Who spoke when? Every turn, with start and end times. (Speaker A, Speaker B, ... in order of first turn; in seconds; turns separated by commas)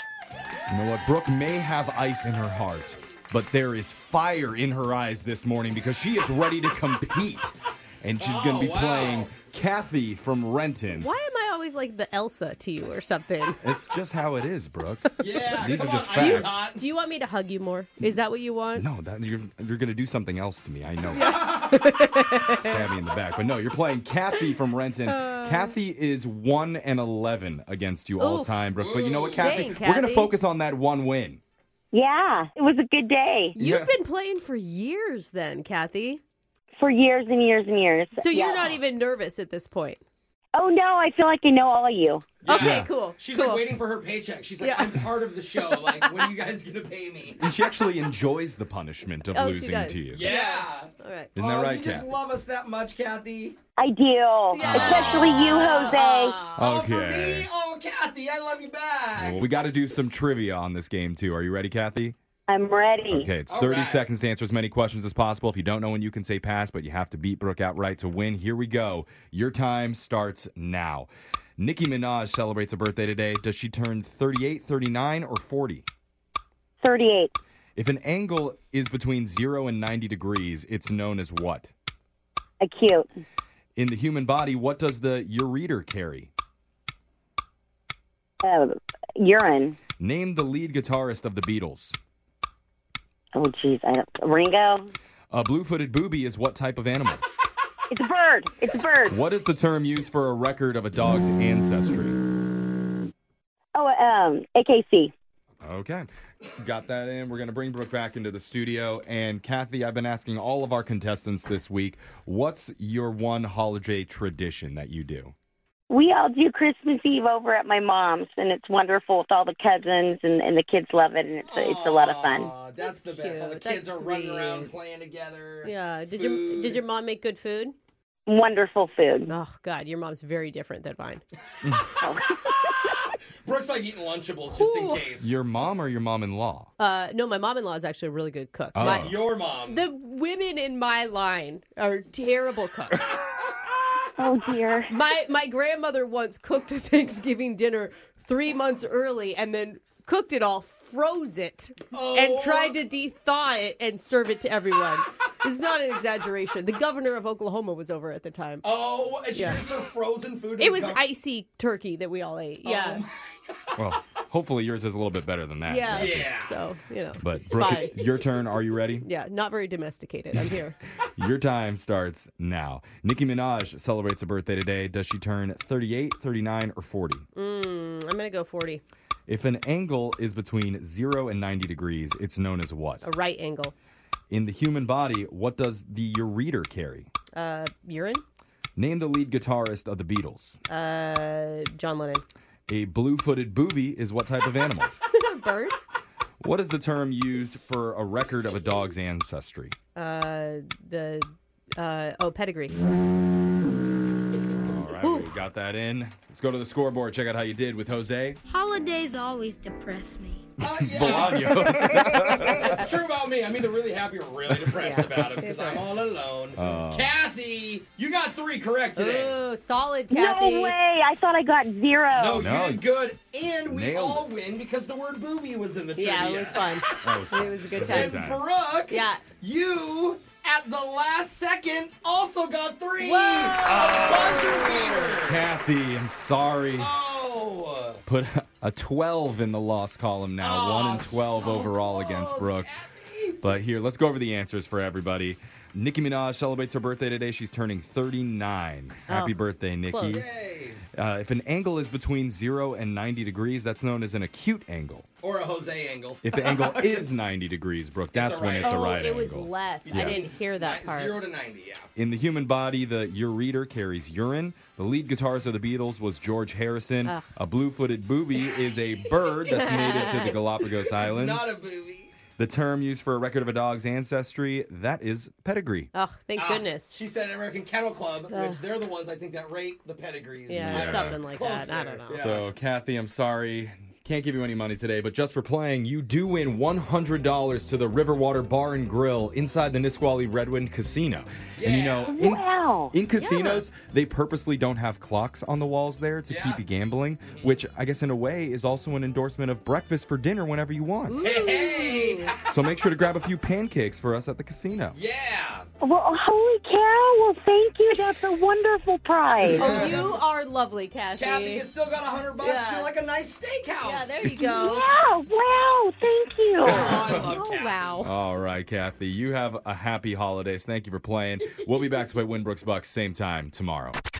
Speaker A: 0.7-11.1, Speaker B: 8.2-9.3, Speaker C: 10.9-13.6, Speaker A: 13.6-16.6, Speaker B: 15.2-16.8, Speaker C: 15.4-18.8, Speaker A: 18.8-21.4, Speaker C: 21.1-22.8, Speaker B: 21.2-21.7, Speaker A: 22.4-31.4, Speaker C: 25.1-25.7, Speaker C: 28.2-28.6, Speaker B: 28.8-29.6, Speaker C: 29.3-30.3, Speaker D: 31.9-33.5, Speaker C: 33.5-36.2, Speaker A: 33.6-33.9, Speaker D: 36.8-38.8, Speaker C: 38.1-40.0, Speaker D: 40.5-42.3, Speaker B: 42.4-47.4, Speaker C: 42.4-43.8, Speaker A: 42.5-42.9, Speaker C: 44.6-46.3, Speaker A: 47.3-50.3, Speaker C: 49.3-51.3, Speaker B: 50.1-53.6, Speaker A: 51.3-52.1, Speaker D: 53.8-56.4, Speaker C: 54.5-56.6, Speaker A: 54.6-55.3, Speaker B: 54.6-55.8, Speaker B: 56.5-59.5, Speaker A: 56.5-57.5, Speaker A: 59.2-62.1, Speaker D: 62.5-63.3, Speaker A: 63.1-75.9, Speaker B: 63.5-64.0, Speaker D: 76.8-77.3, Speaker A: 77.8-81.7, Speaker D: 82.6-83.1, Speaker A: 83.8-86.3, Speaker D: 88.4-89.8, Speaker A: 90.0-92.0, Speaker D: 93.3-94.9, Speaker A: 95.3-97.2, Speaker D: 97.9-99.2, Speaker A: 99.1-102.2, Speaker D: 103.7-105.1, Speaker A: 105.6-115.3, Speaker D: 115.9-122.5, Speaker B: 121.4-126.8, Speaker C: 122.8-124.7, Speaker C: 125.6-127.7, Speaker D: 128.3-129.3, Speaker C: 129.3-131.2, Speaker A: 131.6-131.9, Speaker D: 132.0-133.0, Speaker B: 133.4-135.3, Speaker C: 134.5-135.1, Speaker A: 135.2-136.7, Speaker C: 136.8-143.2, Speaker A: 138.7-139.2, Speaker B: 138.8-139.8, Speaker D: 144.2-144.9, Speaker C: 144.9-158.7, Speaker B: 151.9-152.8, Speaker B: 158.6-161.0, Speaker C: 159.3-159.6, Speaker C: 160.6-163.0, Speaker B: 162.6-163.7, Speaker A: 163.8-166.3, Speaker C: 165.7-167.9, Speaker B: 165.9-166.5, Speaker A: 167.2-169.1, Speaker C: 169.0-170.8, Speaker A: 171.2-177.2, Speaker C: 177.3-178.8, Speaker A: 179.3-183.1, Speaker C: 183.0-183.7, Speaker A: 184.3-187.1, Speaker C: 187.3-188.2, Speaker A: 188.8-190.6, Speaker C: 190.7-192.2, Speaker A: 192.7-194.9, Speaker C: 195.1-195.8, Speaker A: 196.4-199.7, Speaker C: 199.9-202.8, Speaker A: 204.6-208.4, Speaker C: 205.0-205.3, Speaker E: 208.5-210.5, Speaker B: 210.6-211.7, Speaker A: 210.7-212.9, Speaker D: 211.9-212.7, Speaker B: 212.7-219.3, Speaker A: 214.5-215.2, Speaker C: 214.8-215.8, Speaker A: 216.5-217.1, Speaker C: 218.9-220.8, Speaker D: 220.1-222.4, Speaker B: 222.1-226.9, Speaker A: 222.4-222.9, Speaker A: 223.7-224.3, Speaker C: 225.9-228.3, Speaker A: 226.8-228.4, Speaker B: 227.8-235.4, Speaker C: 228.9-229.2, Speaker C: 233.0-235.3, Speaker A: 233.6-234.6, Speaker A: 235.2-236.9, Speaker B: 236.8-238.0, Speaker A: 238.1-242.7, Speaker B: 240.4-243.4, Speaker A: 243.4-250.3, Speaker C: 249.1-250.2, Speaker B: 250.1-250.8, Speaker A: 250.9-255.1, Speaker B: 255.2-257.1, Speaker A: 256.2-260.2, Speaker B: 258.1-259.1, Speaker C: 258.6-261.2, Speaker B: 259.9-261.9, Speaker A: 261.9-271.5, Speaker C: 269.5-270.3, Speaker B: 270.9-272.1, Speaker A: 272.4-275.9, Speaker C: 275.9-276.9, Speaker B: 276.4-282.5, Speaker C: 278.3-278.6, Speaker C: 280.5-282.3, Speaker A: 280.5-281.2, Speaker A: 282.1-301.3, Speaker B: 291.6-292.1, Speaker D: 292.1-292.9, Speaker C: 293.2-293.6, Speaker B: 296.3-296.6, Speaker C: 301.1-302.3, Speaker B: 301.2-302.4, Speaker A: 302.4-305.0, Speaker B: 304.9-305.6, Speaker D: 305.8-309.8, Speaker B: 309.4-310.0, Speaker C: 309.5-311.6, Speaker A: 309.6-310.0, Speaker B: 311.2-314.6, Speaker C: 312.4-312.9, Speaker C: 313.8-314.9, Speaker D: 314.5-317.0, Speaker B: 316.6-318.0, Speaker A: 316.6-317.3, Speaker C: 316.7-318.1, Speaker A: 318.0-324.0